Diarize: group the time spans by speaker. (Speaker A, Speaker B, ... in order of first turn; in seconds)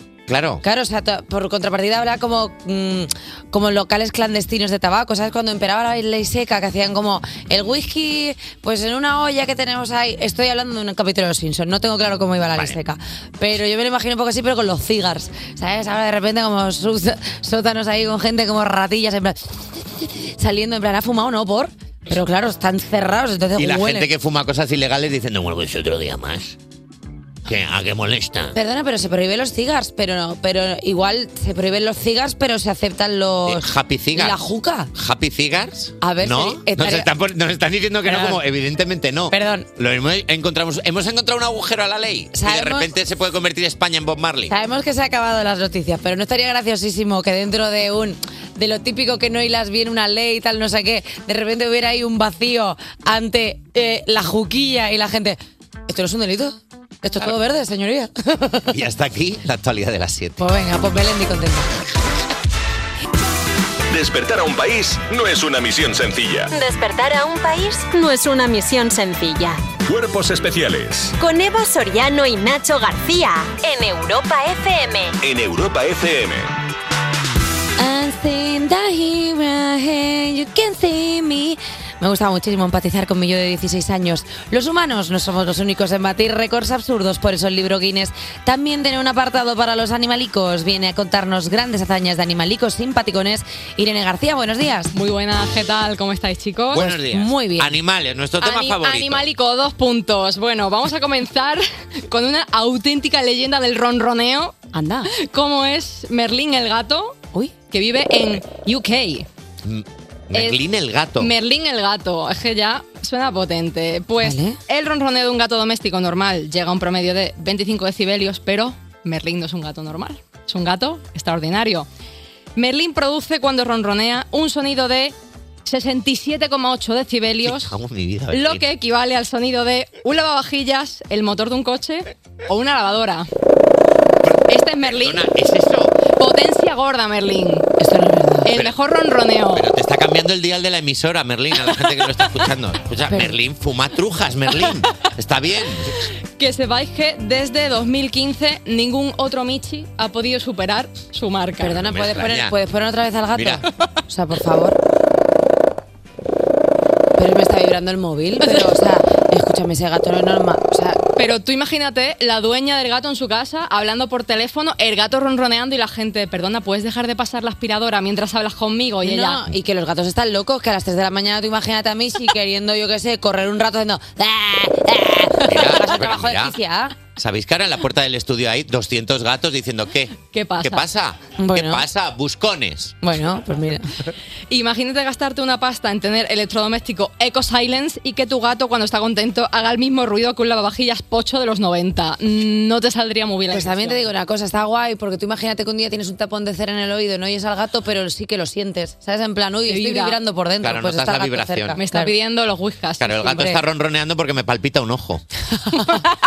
Speaker A: 0.3-0.6, 23.6-26.6, 27.4-28.6, 33.5-34.4, 34.9-44.5, 58.7-60.4, 96.7-99.3, 109.6-111.3, 127.4-128.6, 134.3-135.9, 139.5-146.0, 151.7-152.5, 153.3-153.6, 175.4-176.6, 177.1-183.0, 200.6-201.8, 203.0-205.2
Speaker B: 0.6-24.1, 28.5-34.9, 36.0-37.1, 38.0-38.4, 39.3-39.7, 42.3-42.9, 44.5-58.7, 60.4-61.7, 77.8-94.9, 96.7-97.7, 104.7-105.1, 114.2-114.6, 137.8-138.5, 143.1-143.3, 151.6-154.8, 157.2-161.0, 169.0-177.0, 181.4-181.8, 183.0-183.9, 193.5-202.1, 203.3-203.6, 205.5-206.0
Speaker C: 63.9-66.5, 69.8-71.1, 75.2-76.5
Speaker D: 66.5-69.6, 71.2-75.2
Speaker E: 94.9-96.9, 98.4-104.6, 105.1-107.2, 107.7-109.3, 110.3-110.6, 111.2-121.9, 122.5-125.1, 125.7-127.7, 128.3-133.3, 134.5-135.2, 136.2-137.7, 138.4-139.7, 146.4-151.8, 161.2-169.4, 180.3-180.8, 184.5-194.0, 199.7-200.2, 201.8-203.4